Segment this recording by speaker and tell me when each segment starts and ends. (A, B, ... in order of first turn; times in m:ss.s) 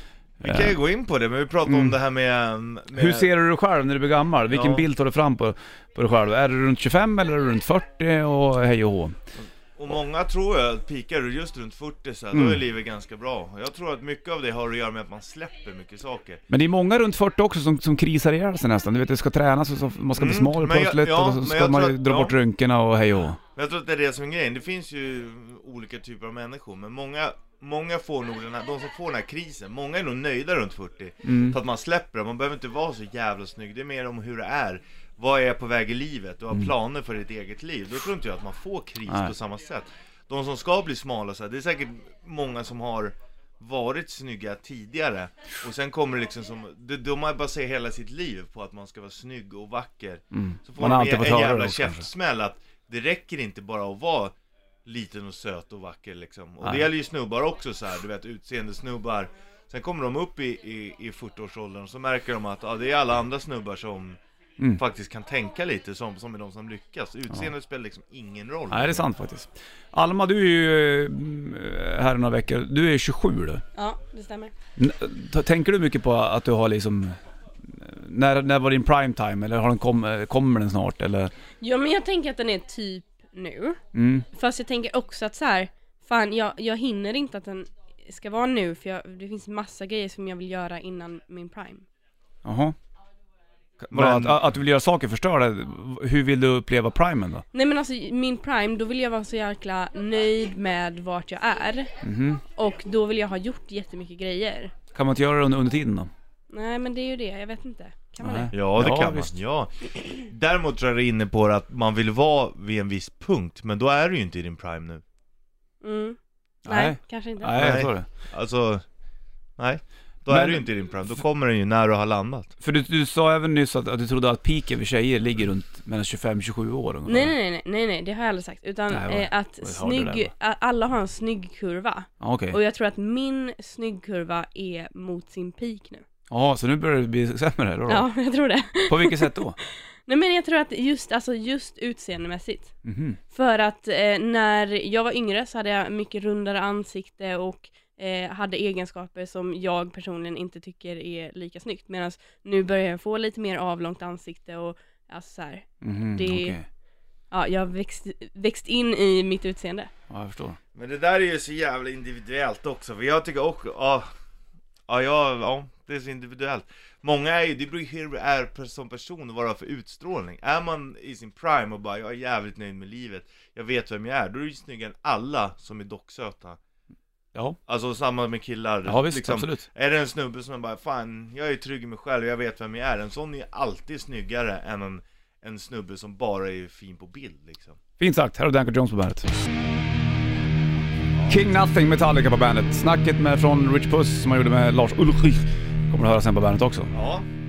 0:00.4-0:00.8 A
0:00.4-0:03.3 B
0:01.6-0:02.0 A
0:02.9-0:09.2 A
0:04.5-0:04.9 B
0:09.3-0:16.4 B
0:12.3-0:12.6 A
0:16.5-0:23.4 A
0:20.1-0:22.4 B
0:23.5-1:04.2 B
0:31.2-0:31.6 A
0:39.1-0:39.3 A
0:50.3-0:52.1 A
0:56.6-0:56.9 A
1:04.8-1:09.1 B
1:08.7-1:13.6 A
1:13.7-1:14.5 C
1:14.8-1:21.3 A
1:21.6-1:23.8 C
1:23.9-1:24.2 A
1:24.3-1:31.8 C
1:32.4-1:32.8 A
1:33.8-1:37.4 A
1:33.9-1:34.4 B
1:37.5-1:41.9 C
1:42.0-1:42.4 A
1:42.6-1:44.7 C
1:44.9-1:46.1 A
1:46.5-1:48.5 C
1:48.2-1:49.4 A
1:48.5-1:55.0 B
1:55.8-1:57.6 C
1:56.6-1:58.1 A
1:57.5-1:58.8 B
1:59.6-2:02.5 B
2:00.3-2:00.7 A
2:02.6-2:07.3 A
2:07.0-2:16.0 C
2:08.9-2:10.3 A
2:12.2-2:12.6 A
2:16.3-2:18.1 A
2:17.9-2:22.8 C
2:18.8-2:19.6 A
2:22.8-2:23.2 A
2:23.3-2:36.6 C
2:35.8-2:36.7 A
2:37.3-2:39.9 C
2:40.1-2:40.6 A
2:40.7-2:44.1 B
2:44.9-2:56.6 B
2:57.7-3:07.8 B
2:58.8-2:59.6 A
3:08.0-3:09.3 A
3:11.3-3:16.9 A
3:16.9-3:17.3 B